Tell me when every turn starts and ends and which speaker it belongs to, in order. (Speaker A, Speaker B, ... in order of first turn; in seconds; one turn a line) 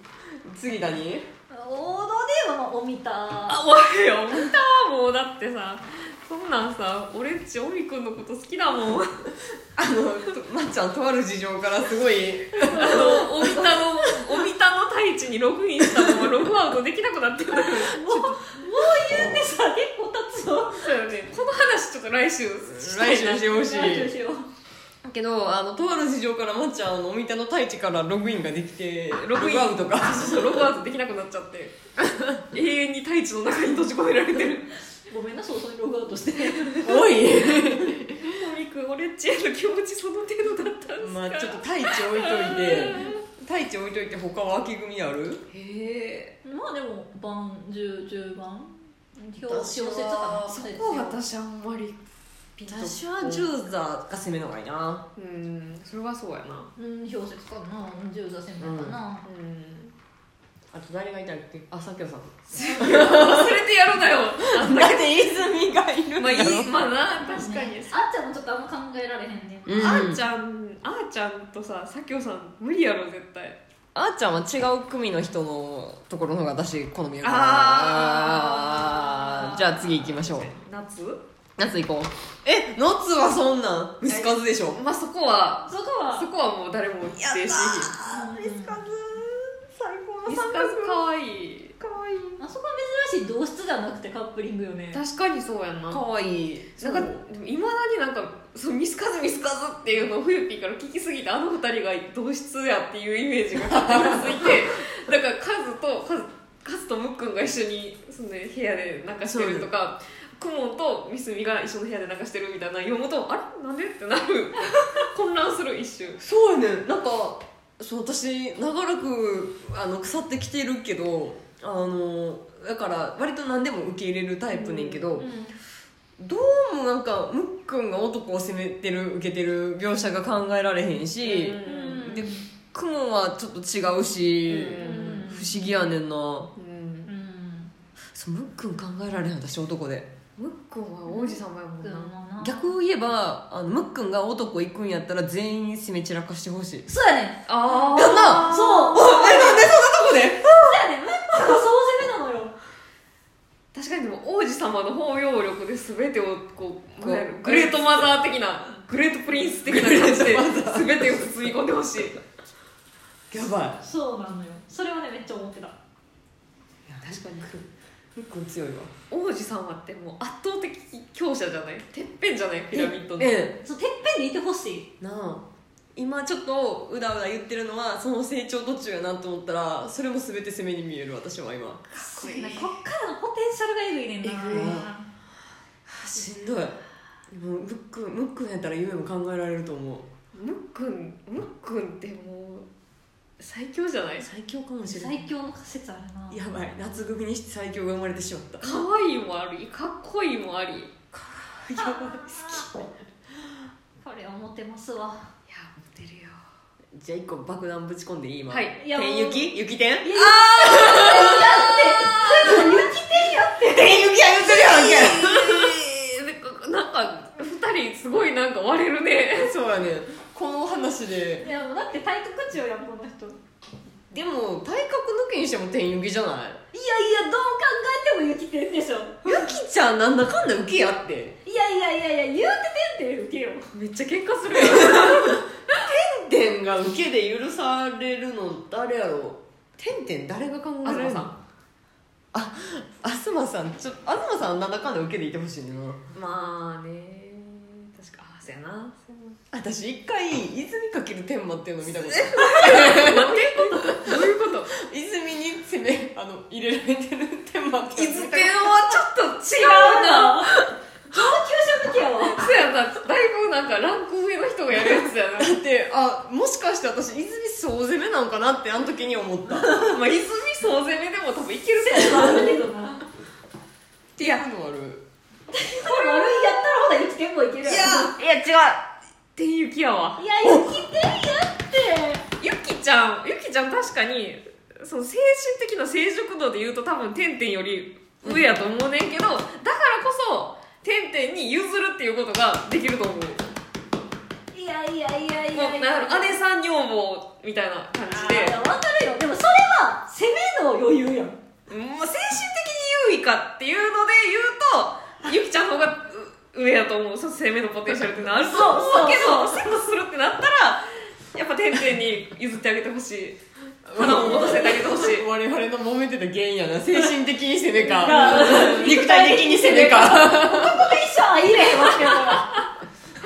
Speaker A: 0.4-1.3
Speaker B: 1.5-3.6
Speaker C: 3.5-9.3
Speaker A: 9.8-13.8
Speaker B: 12.6-13.8
Speaker C: 12.7-18.6
Speaker A: 15.8-16.3
Speaker B: 17.7-20.9
Speaker C: 20.7-23.9
Speaker A: 22.6-24.1
Speaker B: 23.4-24.5
Speaker A: 25.0-30.7
Speaker C: 29.1-31.8
Speaker A: 32.1-32.4
Speaker C: 32.5-34.7
Speaker B: 35.1-36.9
Speaker A: 36.8-38.3
Speaker C: 36.8-43.2
Speaker A: 41.0-45.5
Speaker C: 45.5-46.3
Speaker B: 46.4-51.1
Speaker A: 49.4-50.7
Speaker C: 50.5-52.0
Speaker C: 52.6-53.5
Speaker A: 52.7-55.1
Speaker C: 55.1-56.7
Speaker B: 56.8-59.2
Speaker A: 58.6-59.0
Speaker C: 59.2-59.9
Speaker A: 60.7-63.6
Speaker B: 62.5-63.2
Speaker C: 62.6-65.3
Speaker A: 64.4-66.8
Speaker C: 66.2-67.9
Speaker B: 67.1-70.0
Speaker A: 69.7-70.2
Speaker C: 69.8-73.6
Speaker A: 73.9-80.5
Speaker C: 77.2-81.2
Speaker A: 81.6-84.8
Speaker C: 84.1-87.9
Speaker B: 85.7-86.3
Speaker A: 87.2-91.0
Speaker B: 88.1-88.8
Speaker C: 90.2-91.8
Speaker A: 91.8-92.4
Speaker B: 92.4-95.0
Speaker C: 94.9-96.0
Speaker A: 95.9-97.2
Speaker C: 96.8-116.2
Speaker A: 103.6-104.6
Speaker A: 109.3-109.7
Speaker A: 116.2-125.3
Speaker B: 124.6-125.6
Speaker A: 126.2-136.5
Speaker C: 131.2-132.1
Speaker B: 131.6-132.5
Speaker C: 134.5-135.3
Speaker B: 134.8-135.6
Speaker C: 136.6-137.1
Speaker B: 137.1-137.7
Speaker A: 138.1-140.1
Speaker C: 140.4-142.1
Speaker B: 141.1-142.7
Speaker A: 142.4-146.9
Speaker B: 146.9-149.8
Speaker C: 147.5-149.1
Speaker A: 147.9-150.8
Speaker B: 150.4-152.6
Speaker C: 153.7-162.2
Speaker A: 157.0-158.2
Speaker A: 159.6-161.0
Speaker A: 163.3-163.8
Speaker B: 163.8-165.8
Speaker A: 166.9-168.9
Speaker C: 169.1-173.4
Speaker A: 172.7-173.6
Speaker B: 173.6-174.9
Speaker A: 175.0-182.7
Speaker B: 181.9-185.1
Speaker A: 184.2-184.9
Speaker A: 185.9-190.1
Speaker C: 190.3-192.7
Speaker C: 193.4-194.3
Speaker A: 194.2-195.2
Speaker B: 194.8-196.4
Speaker A: 196.3-198.8
Speaker C: 198.6-200.9
Speaker A: 201.1-202.9
Speaker B: 201.8-202.7
Speaker B: 204.0-205.3
Speaker C: 205.5-206.4
Speaker A: 206.9-215.8
Speaker C: 208.5-208.8
Speaker B: 208.8-214.1
Speaker C: 214.4-219.6
Speaker A: 219.4-221.5
Speaker B: 221.4-223.4
Speaker A: 224.1-226.6
Speaker B: 226.7-229.3
Speaker A: 229.2-231.4
Speaker B: 231.4-233.7
Speaker C: 233.7-235.4
Speaker A: 234.5-241.3
Speaker C: 240.8-241.4
Speaker A: 242.3-246.1
Speaker C: 246.1-249.4
Speaker A: 249.5-258.9
Speaker C: 251.9-254.7
Speaker C: 257.9-260.7
Speaker B: 259.5-260.5
Speaker B: 261.1-262.6
Speaker C: 262.3-265.6
Speaker A: 265.4-269.8
Speaker C: 269.7-272.7
Speaker B: 271.8-273.0
Speaker A: 274.2-275.1
Speaker B: 275.5-278.1
Speaker C: 275.9-276.2
Speaker A: 277.6-278.8
Speaker C: 277.8-278.1
Speaker C: 279.4-280.2
Speaker B: 280.2-282.2
Speaker A: 280.4-280.8
Speaker C: 282.4-293.5
Speaker A: 288.2-288.6
Speaker B: 294.5-296.4
Speaker C: 295.5-298.6
Speaker B: 298.1-301.4
Speaker C: 301.7-313.4
Speaker B: 308.4-309.9
Speaker A: 313.9-320.9
Speaker C: 313.9-315.3
Speaker B: 314.4-314.7
Speaker B: 317.8-322.6
Speaker C: 318.0-318.9
Speaker C: 322.1-322.7